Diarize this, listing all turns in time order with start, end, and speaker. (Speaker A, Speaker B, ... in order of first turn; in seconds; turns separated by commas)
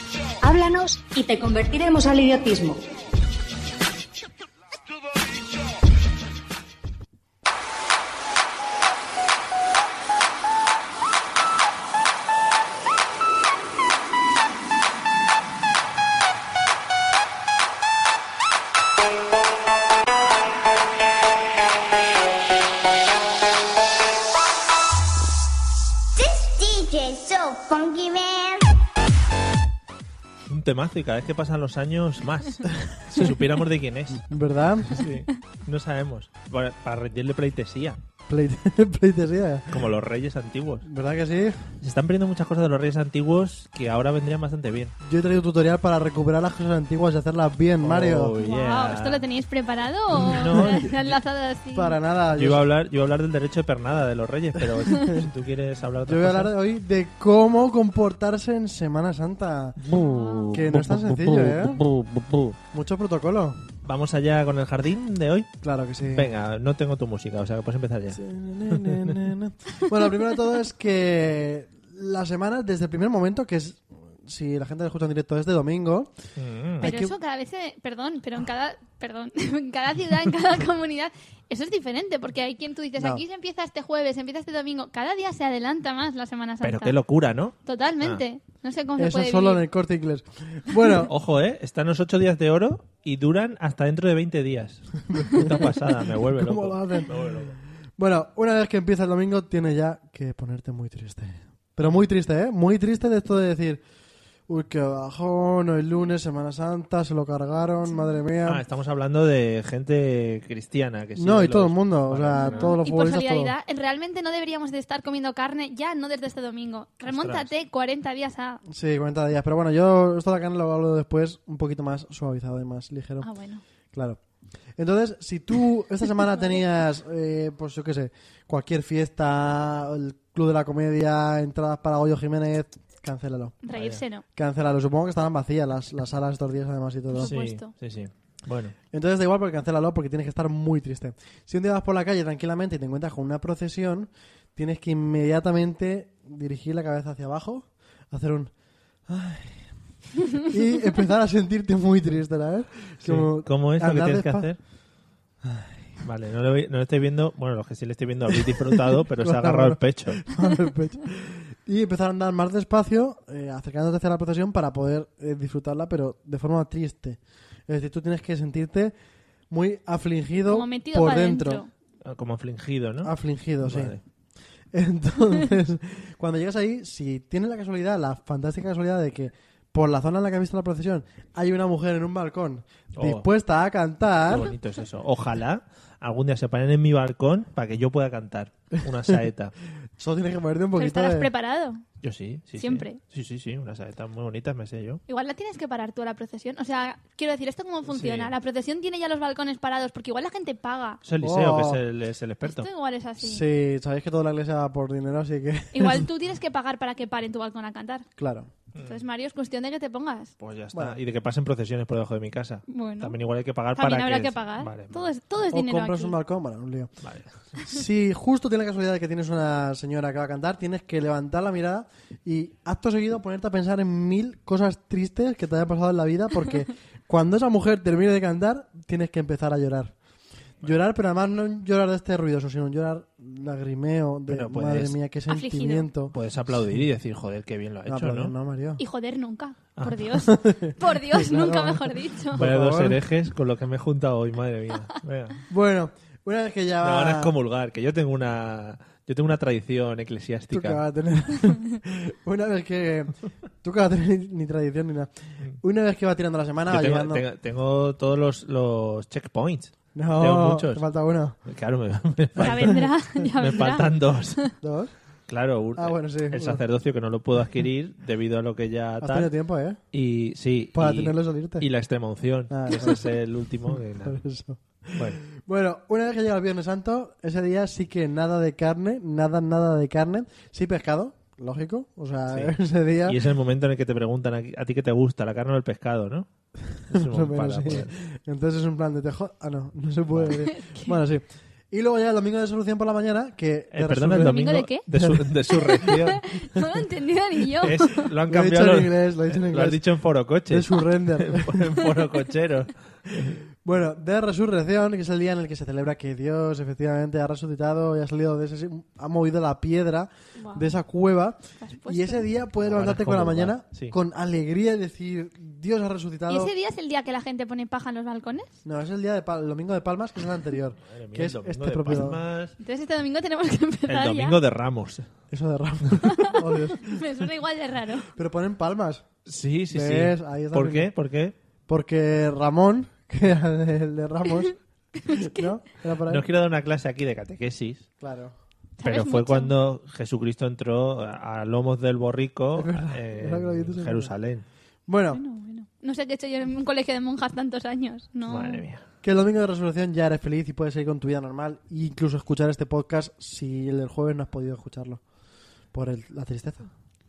Speaker A: 0.4-2.8, Speaker B: 26.1-28.7, Speaker C: 30.5-34.3, Speaker D: 34.2-35.1, Speaker C: 34.9-38.0, Speaker D: 38.3-39.8, Speaker C: 39.7-40.9, Speaker D: 40.8-41.7, Speaker C: 41.8-44.9, Speaker D: 45.0-48.3, Speaker C: 47.8-49.2, Speaker E: 48.4-52.0, Speaker C: 50.1-51.1, Speaker D: 50.2-50.9, Speaker D: 51.7-52.7, Speaker C: 52.4-56.5, Speaker D: 54.6-55.3, Speaker D: 56.0-59.9, Speaker C: 59.8-62.5, Speaker E: 59.9-60.6, Speaker D: 60.5-61.8, Speaker D: 62.7-63.7, Speaker C: 63.8-65.5, Speaker D: 65.6-66.3, Speaker C: 66.1-69.1, Speaker D: 68.1-76.1, Speaker C: 76.3-76.9, Speaker D: 76.8-77.2, Speaker E: 76.8-87.0, Speaker C: 86.6-88.2, Speaker E: 87.6-89.6, Speaker D: 89.0-91.1, Speaker C: 91.0-97.6, Speaker D: 95.1-103.8, Speaker D: 104.5-108.6, Speaker C: 108.5-112.7, Speaker D: 111.2-113.5, Speaker E: 112.3-118.6, Speaker C: 117.0-117.5, Speaker D: 118.7-123.3, Speaker E: 123.2-123.6, Speaker D: 123.9-124.2, Speaker D: 124.8-133.6, Speaker E: 133.6-134.2, Speaker C: 133.7-134.0, Speaker D: 134.3-137.3, Speaker E: 137.2-137.7, Speaker C: 137.2-138.7, Speaker D: 138.9-148.5, Speaker D: 149.1-149.7, Speaker D: 150.2-154.5, Speaker C: 153.0-154.6, Speaker D: 155.4-155.9, Speaker C: 156.0-160.3, Speaker D: 158.7-168.9, Speaker D: 169.5-171.6, Speaker E: 170.4-171.7, Speaker C: 172.0-174.0, Speaker D: 173.0-173.9, Speaker D: 174.7-184.5, Speaker C: 182.9-183.2, Speaker C: 184.3-189.5, Speaker D: 190.0-191.3, Speaker E: 190.8-191.8, Speaker C: 192.0-195.0, Speaker E: 192.6-193.0, Speaker E: 195.1-201.0, Speaker C: 197.9-198.3, Speaker C: 201.0-202.7, Speaker D: 201.2-201.8, Speaker E: 202.4-203.4, Speaker D: 203.2-206.1, Speaker E: 205.7-208.1, Speaker D: 208.2-208.5, Speaker C: 208.7-209.0, Speaker E: 208.8-210.3, Speaker C: 210.4-215.1, Speaker E: 212.7-213.2, Speaker E: 213.7-216.2, Speaker D: 215.5-216.9, Speaker C: 217.0-217.6, Speaker D: 217.6-229.9, Speaker D: 230.6-236.1, Speaker C: 234.3-235.0, Speaker E: 235.3-235.9, Speaker C: 236.1-238.3, Speaker D: 237.9-238.8, Speaker E: 238.8-242.5, Speaker C: 239.8-240.0, Speaker D: 240.2-243.0, Speaker C: 242.3-245.4, Speaker D: 245.5-247.3, Speaker C: 246.8-250.8, Speaker D: 250.5-257.2, Speaker C: 256.7-260.8, Speaker D: 259.9-261.4, Speaker C: 261.4-264.5, Speaker E: 262.4-264.5, Speaker D: 262.4-262.9, Speaker D: 264.6-264.9, Speaker C: 265.3-269.3, Speaker D: 265.8-266.6, Speaker D: 269.0-269.8, Speaker C: 269.9-274.2, Speaker D: 270.7-271.6, Speaker D: 272.5-273.1, Speaker D: 273.7-283.2, Speaker C: 274.9-275.2, Speaker C: 283.1-286.3, Speaker C: 286.9-287.9, Speaker D: 286.9-295.2, Speaker E: 290.4-291.0, Speaker C: 293.7-296.2, Speaker E: 294.2-294.8, Speaker E: 295.5-298.0, Speaker C: 297.6-303.4, Speaker D: 298.3-299.8, Speaker D: 300.5-301.8, Speaker D: 303.1-316.5, Speaker E: 310.4-310.7, Speaker E: 311.6-312.3, Speaker C: 312.6-313.9, Speaker E: 316.3-318.5, Speaker D: 318.6-322.2, Speaker C: 320.8-322.5, Speaker E: 322.6-324.4, Speaker C: 323.9-325.1, Speaker D: 325.3-327.3, Speaker E: 326.0-328.1, Speaker D: 328.1-329.0, Speaker C: 329.2-331.3, Speaker D: 329.7-330.9, Speaker D: 331.7-336.2, Speaker E: 335.0-335.5, Speaker C: 336.1-337.9, Speaker D: 338.0-338.3, Speaker E: 338.8-339.5, Speaker C: 338.8-344.4, Speaker D: 342.6-344.1, Speaker D: 344.9-345.2, Speaker E: 345.1-348.6, Speaker C: 348.3-348.8, Speaker D: 349.0-355.0, Speaker D: 355.7-356.7